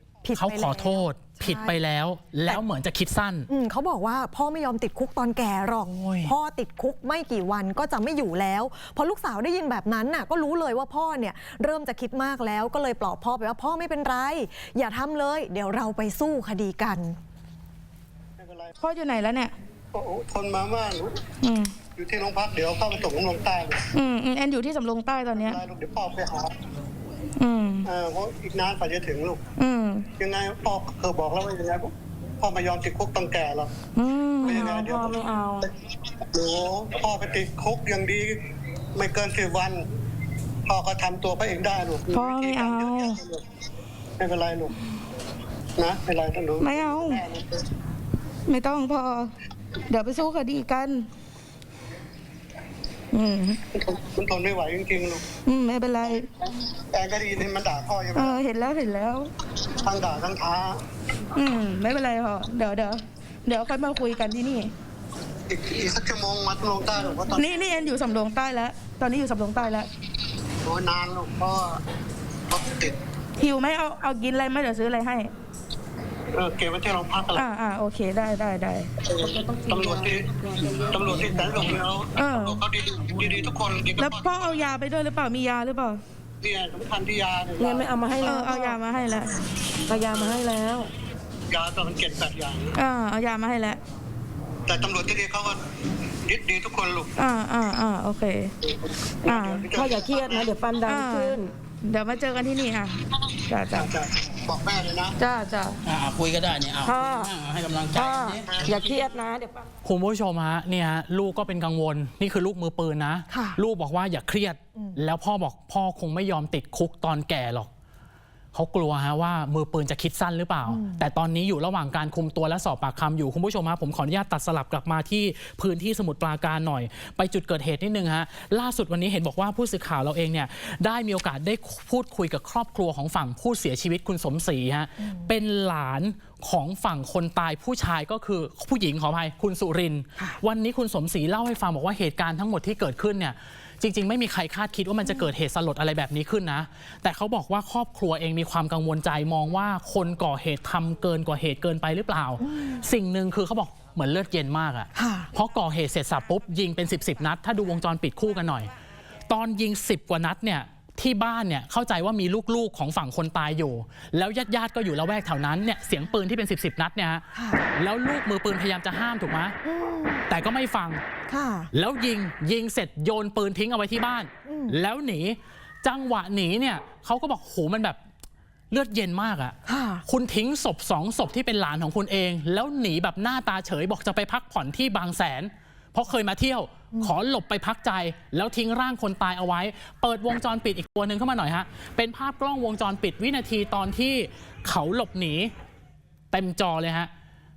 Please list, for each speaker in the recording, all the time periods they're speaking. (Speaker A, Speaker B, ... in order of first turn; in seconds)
Speaker A: 0.2-1.8, 3.5-17.2, 113.3-113.6, 120.7-121.0, 135.0-135.3, 152.4-152.8, 154.9-155.3, 167.3-167.7, 169.7-170.3, 171.3-171.7, 174.5-174.8, 179.7-180.0
Speaker B: 0.4-3.5, 5.9-6.3, 109.8-117.7, 118.5-158.7, 159.3-169.6, 170.3-171.0, 171.7-178.0, 178.7-195.5, 196.3-197.1
Speaker C: 18.4-18.7, 19.9-21.2, 22.0-23.9, 25.4-26.5, 27.9-29.4, 30.2-33.7, 34.4-35.3, 36.2-38.4, 39.0-39.9, 40.7-43.4, 44.2-44.7, 45.8-47.5, 53.8-55.2, 56.9-58.4, 59.8-60.8, 65.5-67.8, 70.6-71.8, 72.5-73.0, 76.3-77.4, 79.1-84.6, 86.4-88.0, 91.5-92.7, 94.7-95.6, 96.3-97.1, 99.3-100.5, 103.7-105.2, 108.5-109.1
Speaker D: 18.8-19.5, 21.4-21.8, 23.9-25.6, 27.4-27.9, 29.6-30.1, 34.0-35.7, 42.1-43.2, 46.6-47.2, 48.5-49.3, 49.9-51.1, 53.1-53.6, 55.5-56.3, 58.1-59.3, 61.4-64.7, 67.3-69.9, 73.4-75.3, 77.3-78.9, 82.2-82.6, 84.0-86.0, 88.2-89.3, 92.8-93.8, 97.2-98.5, 99.2-99.7, 100.8-103.9, 106.8-107.3, 108.0-108.4
Speaker E: 79.2-81.5, 87.6-88.8, 89.9-90.9, 99.7-101.5, 105.3-105.7, 108.7-109.5
Speaker F: 105.8-108.5